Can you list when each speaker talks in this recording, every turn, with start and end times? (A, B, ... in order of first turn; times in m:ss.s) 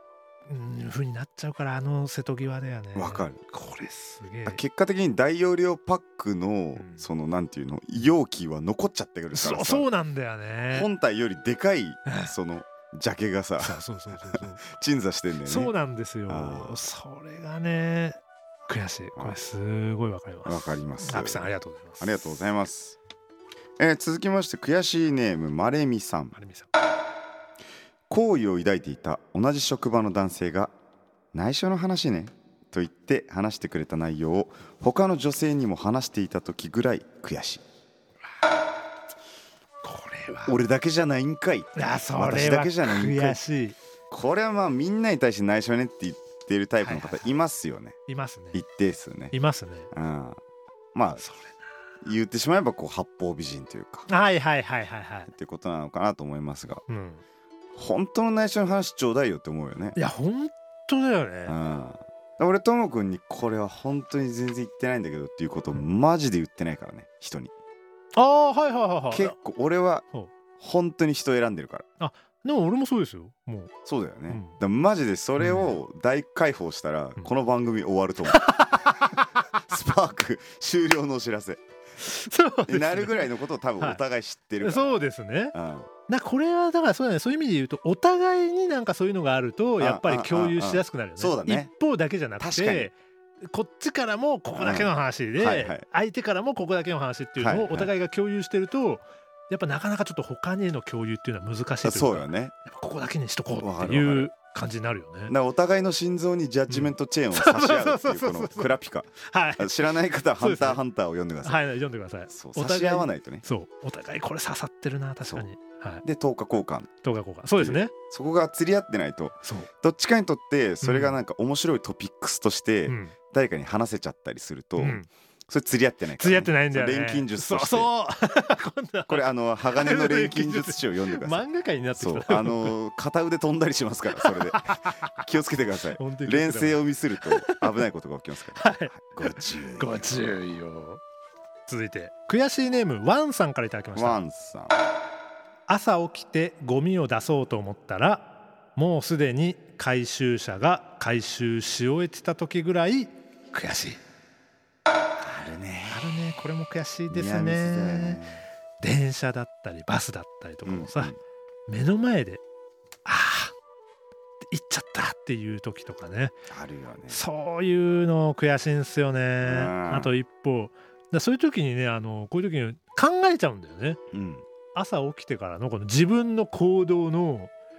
0:00.5-0:04.5 A
0:03.0-0:03.4 B
0:04.4-0:09.9 B
0:09.4-0:10.8 A
0:10.7-0:13.8 B
0:13.7-0:14.5 A
0:14.3-0:15.7 B
0:15.7-0:20.5 A
0:16.3-0:16.8 B
0:20.5-0:21.4 B
0:21.1-0:22.0 A
0:22.0-0:23.0 B
0:23.8-0:26.4 B
0:26.4-0:26.7 A
0:28.1-0:30.7 B
0:31.3-0:37.6 B
0:39.8-0:40.5 A
0:40.5-0:43.4 B
0:41.8-0:43.8 A
0:44.1-0:48.0 B
0:46.9-0:47.2 A
0:48.1-0:48.6 A
0:48.5-0:49.3 B
0:49.3-0:49.9 A
0:49.9-0:50.4 B
0:50.9-0:51.2 B
0:52.0-0:54.1 B
0:54.1-0:55.3 A
0:55.3-0:56.8 B
0:56.9-0:57.2 A
0:57.8-1:00.0 B
1:00.0-1:01.5 A
1:01.5-1:07.5 B
1:08.2-1:09.2 A
1:09.1-1:10.0 B
1:10.6-1:11.9 B
1:12.0-1:13.7 A
1:13.8-1:18.8 B
1:19.6-1:21.6 B
1:22.0-1:22.7 A
1:22.7-1:25.0 B
1:24.8-1:25.5 A
1:25.5-1:25.9 B
1:26.1-1:32.8 A
1:29.8-1:31.7 B
1:32.4-1:32.9 B
1:33.5-1:42.0 A
1:34.6-1:35.9 B
1:37.4-1:37.9 B
1:41.8-1:42.6 B
1:42.7-1:45.3 A
1:43.6-1:44.3 B
1:45.3-1:51.7 B
1:47.4-1:48.4 A
1:49.2-1:49.6 A
1:50.5-1:50.7 A
1:51.4-1:56.0 A
1:52.3-1:53.4 B
1:56.0-1:56.9 B
1:57.0-1:57.8 A
1:57.6-2:07.9 B
2:06.2-2:09.1 A
2:09.1-2:20.1 B
2:09.8-2:10.6 A
2:11.3-2:12.2 A
2:16.0-2:16.6 A
2:18.6-2:18.9 A
2:20.1-2:21.0 A
2:21.7-2:24.0 A
2:24.0-2:24.7 B
2:25.7-2:34.0 A
2:35.2-2:36.1 B
2:36.1-2:38.2 A
2:37.1-2:38.4 B
2:38.8-2:41.1 A
2:40.6-2:41.2 B
2:41.7-2:42.4 A
2:43.0-2:43.5 A
2:44.5-2:46.4 A
2:46.5-2:47.2 B
2:47.2-2:54.0 A
2:49.4-2:50.1 B
2:54.1-2:54.5 B
2:54.7-2:57.5 A